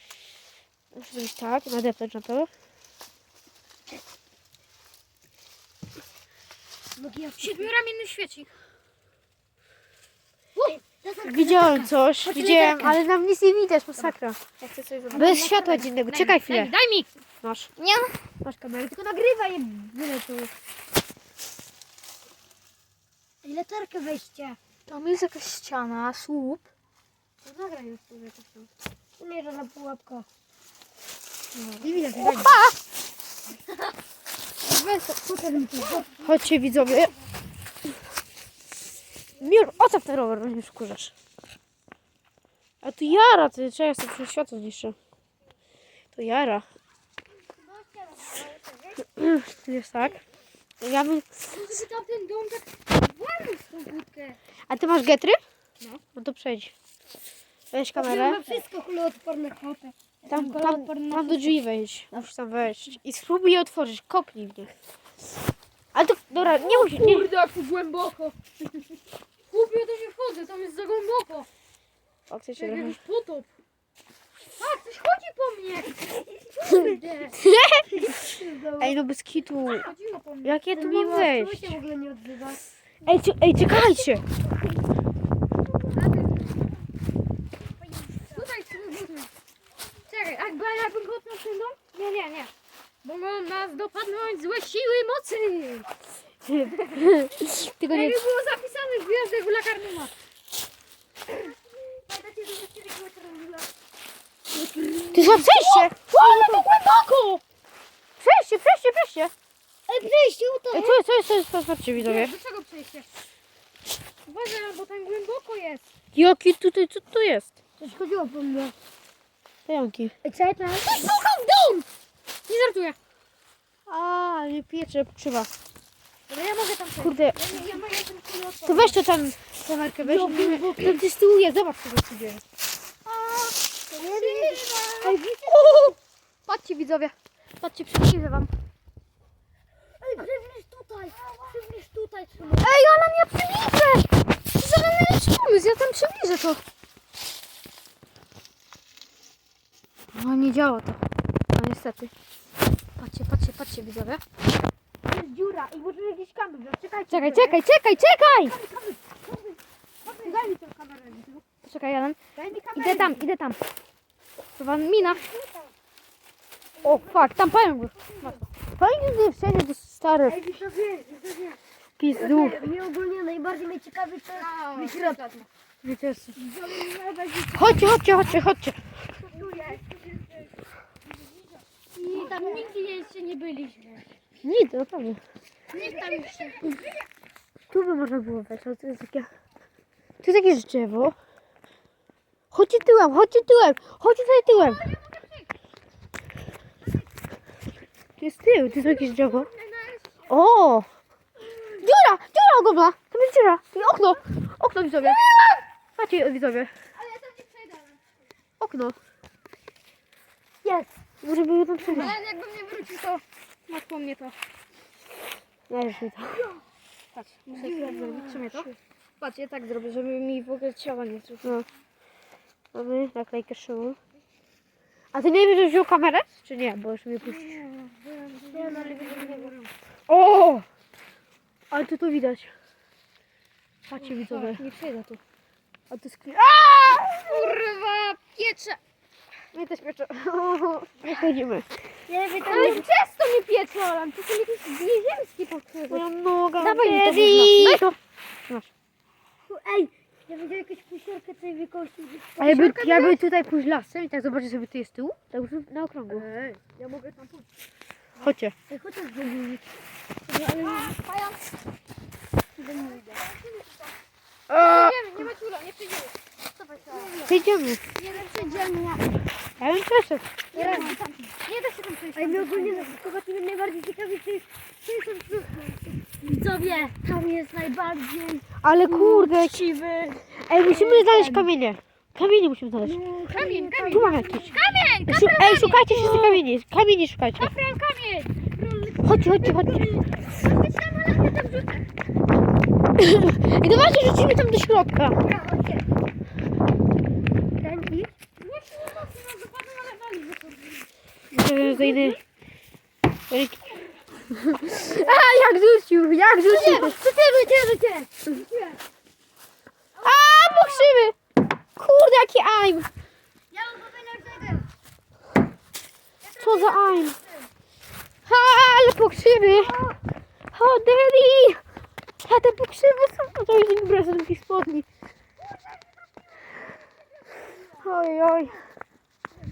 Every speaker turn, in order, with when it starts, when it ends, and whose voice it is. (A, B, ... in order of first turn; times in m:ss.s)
0:00.9-0:02.5 A
0:07.0-0:07.7 B
0:07.4-0:08.5 C
0:10.6-0:10.8 C
0:10.8-0:13.0 B
0:11.2-0:14.4 A
0:14.0-0:17.1 C
0:15.1-0:15.9 B
0:15.1-0:16.7 A
0:17.4-0:17.7 A
0:17.8-0:18.2 C
0:18.4-0:20.5 A
0:23.4-0:24.6 B
0:24.9-0:26.7 C
0:27.5-0:27.8 A
0:27.7-0:28.7 C
0:29.2-0:30.3 B
0:31.6-0:32.8 C
0:31.8-0:32.6 A
0:34.6-0:36.3 C
0:35.2-0:36.2 B
0:36.2-0:37.1 A
0:39.4-0:41.1 A
0:42.8-0:45.0 A
0:46.2-0:46.6 A
0:49.0-0:50.2 A
0:50.8-0:51.8 A
0:51.5-0:54.4 C
0:54.7-0:55.4 A
0:56.2-0:56.7 A
0:57.7-0:58.4 A
0:58.0-0:59.9 B
0:58.1-0:58.6 C
1:00.2-1:01.6 C
1:00.3-1:04.7 A
1:05.9-1:07.3 A
1:06.4-1:08.4 C
1:09.5-1:11.5 C
1:12.3-1:13.0 A
1:12.6-1:13.5 C
1:14.6-1:17.4 C
1:16.7-1:17.1 B
1:17.4-1:17.9 A
1:17.8-1:19.0 B
1:18.8-1:19.9 A
1:19.6-1:20.6 C
1:20.4-1:21.8 A
1:20.7-1:22.6 B
1:23.0-1:24.2 A
1:25.9-1:26.7 C
1:28.2-1:29.3 C
1:30.1-1:32.5 C
1:33.0-1:35.9 C
1:36.4-1:38.2 A
1:37.8-1:40.1 C
1:41.3-1:43.7 C
1:44.5-1:45.3 B
1:45.1-1:47.4 C
1:45.1-1:46.0 A
1:46.2-1:46.6 B
1:48.2-1:49.3 A
1:49.9-1:51.0 B
1:50.7-1:52.4 A
1:52.0-1:53.1 C
1:54.3-1:55.8 C
1:56.1-1:57.5 A
1:57.8-1:58.8 B
1:59.7-2:00.1 A
2:00.2-2:01.0 B
2:00.8-2:01.9 C
2:02.5-2:03.0 C
2:03.9-2:05.5 A
2:06.3-2:09.0 C
2:07.0-2:07.4 A
2:08.7-2:12.4 A
2:10.0-2:11.0 B
2:13.1-2:16.0 C
2:14.0-2:15.9 B
2:16.5-2:18.5 C
2:20.0-2:22.8 B
2:22.6-2:26.6 C
2:30.1-2:31.0 C
2:31.6-2:32.1 C
2:33.0-2:34.2 C
2:35.0-2:37.6 A
2:37.1-2:38.6 C
2:38.4-2:39.0 A
2:40.1-2:42.2 C
2:40.3-2:40.8 A
2:42.4-2:43.3 A
2:42.8-2:43.6 C
2:44.6-2:45.3 C
2:46.8-2:48.4 B
2:46.8-2:48.4 C
2:48.8-2:50.4 A
2:50.3-2:51.6 B
2:52.0-2:52.6 A
2:52.1-2:55.2 B
2:54.3-2:55.5 C
2:55.8-2:56.4 A
2:56.4-2:58.4 B
2:57.5-2:58.8 A
2:59.2-3:00.0 C
2:59.3-2:59.8 B
3:02.0-3:04.1 C
3:02.1-3:02.7 B
3:04.4-3:05.2 A
3:05.7-3:06.7 C
3:05.8-3:06.3 B
3:07.7-3:09.3 A
3:10.2-3:11.2 A
3:12.5-3:14.8 A
3:14.5-3:15.5 C
3:18.2-3:19.5 A
3:18.7-3:20.3 C
3:20.3-3:20.9 A
3:21.8-3:25.2 A
3:25.0-3:25.6 C
3:26.0-3:26.7 A
3:27.0-3:28.0 C
3:28.6-3:29.0 A
3:30.6-3:30.9 B
3:31.2-3:32.2 A
3:31.8-3:34.4 C
3:35.7-3:36.5 A
3:37.1-3:41.6 C
3:37.5-3:38.7 B
3:42.7-3:44.0 A
3:45.1-3:47.6 A
3:47.2-3:49.7 C
3:48.5-3:49.6 B
3:50.1-3:50.6 A
3:51.7-3:52.5 A
3:53.9-3:54.6 A
3:54.0-3:55.2 C
3:55.9-3:57.5 A
3:56.9-3:58.8 C
3:59.5-4:01.7 A
4:02.1-4:02.9 B
4:02.4-4:06.1 C
4:05.9-4:08.0 A
4:06.6-4:07.9 C
4:09.5-4:12.5 B
4:12.4-4:16.3 A
4:12.4-4:13.2 C
4:16.1-4:17.5 C
4:18.2-4:18.6 A
4:18.7-4:19.8 B
4:20.3-4:21.4 C
4:22.6-4:24.0 C
4:24.5-4:25.0 A
4:24.5-4:27.3 C
4:26.9-4:27.3 B
4:27.3-4:27.8 A
4:28.0-4:29.0 C
4:28.1-4:29.1 B
4:29.6-4:30.3 A
4:30.5-4:32.9 C
4:30.5-4:31.1 B
4:32.2-4:38.6 B
4:38.6-4:39.6 A
4:38.9-4:40.3 C
4:40.4-4:43.0 A
4:40.6-4:41.5 B
4:42.8-4:44.9 B
4:43.3-4:46.4 C
4:43.8-4:44.5 A
4:45.1-4:47.6 A
4:47.4-4:51.9 C
4:49.0-4:49.9 A
4:53.0-4:55.2 A
4:55.1-4:55.8 B
4:57.6-4:58.1 B
4:58.4-5:00.9 C
5:01.3-5:02.2 A
5:01.6-5:02.2 C
5:03.3-5:03.7 A
5:04.3-5:07.0 A
5:04.7-5:05.3 B
5:06.5-5:08.8 B
5:10.0-5:11.1 C
5:10.0-5:11.2 A
5:11.8-5:12.9 A
5:13.5-5:14.7 B
5:16.3-5:17.0 C
5:16.4-5:17.2 A
5:17.0-5:17.5 B
5:18.3-5:19.8 A
5:19.4-5:20.0 B
5:20.5-5:21.6 A
5:22.2-5:24.9 A
5:27.7-5:28.6 A